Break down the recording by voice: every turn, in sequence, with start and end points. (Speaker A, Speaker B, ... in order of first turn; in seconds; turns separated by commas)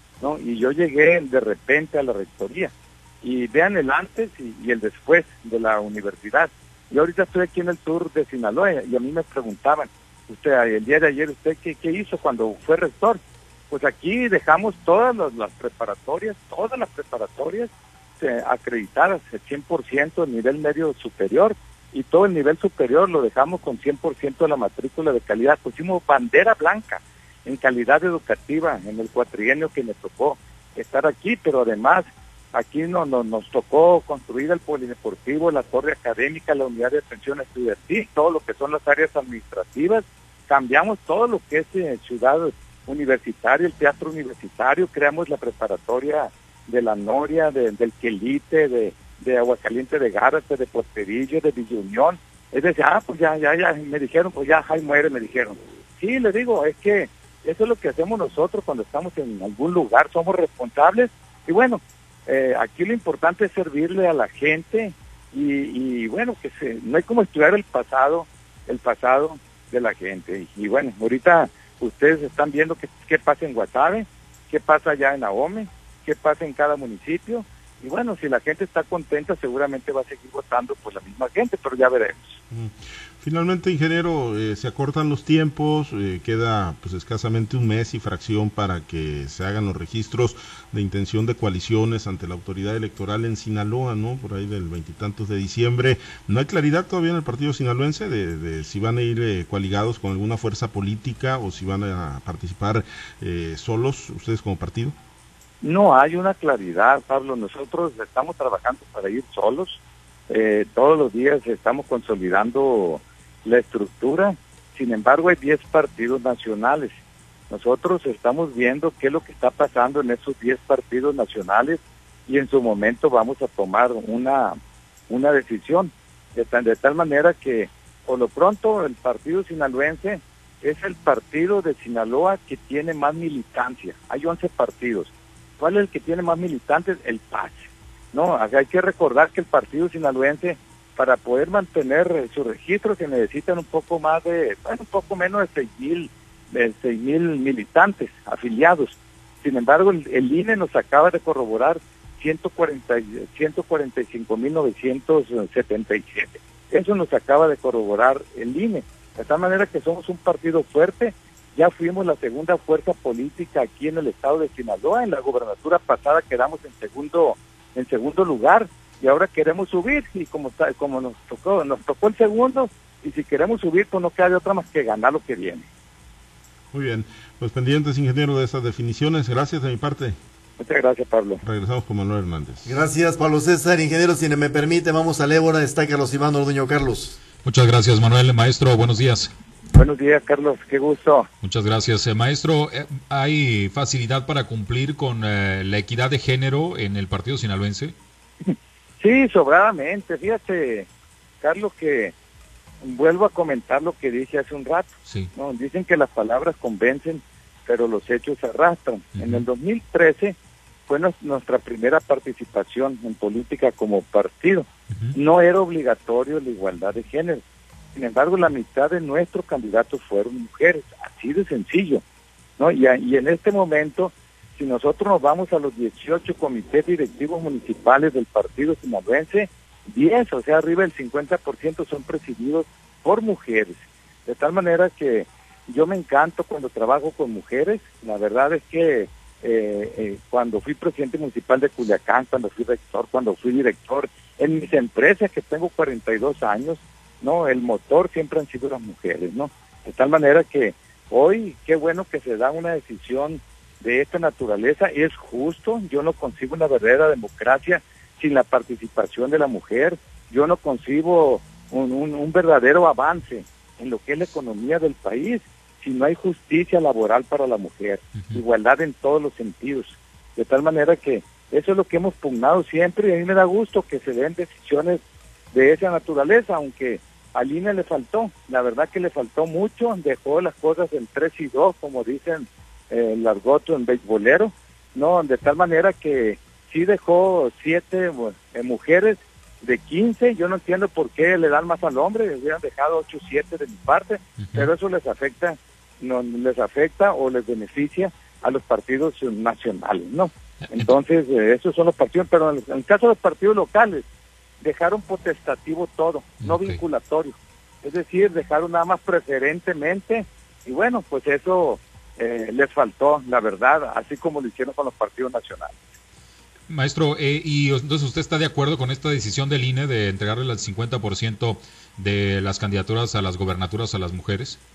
Speaker A: 0.2-82.4, Speaker B: 82.5-104.9, Speaker A: 105.6-117.0, Speaker A: 117.5-124.6, Speaker A: 125.1-175.7, Speaker B: 176.7-180.2, Speaker A: 180.6-181.4, Speaker B: 181.4-182.7, Speaker C: 182.6-187.2, Speaker D: 187.4-189.3, Speaker A: 189.7-191.3, Speaker D: 191.4-197.9, Speaker A: 198.4-200.9, Speaker A: 201.4-202.1, Speaker A: 202.8-210.3, Speaker D: 205.1-205.3, Speaker D: 209.2-209.4, Speaker A: 210.9-217.4, Speaker D: 214.9-215.2, Speaker A: 217.9-222.0, Speaker A: 222.6-275.0, Speaker D: 268.1-268.4, Speaker A: 275.5-304.0, Speaker D: 294.4-294.7, Speaker A: 304.6-315.8, Speaker D: 306.4-306.8, Speaker D: 316.7-324.6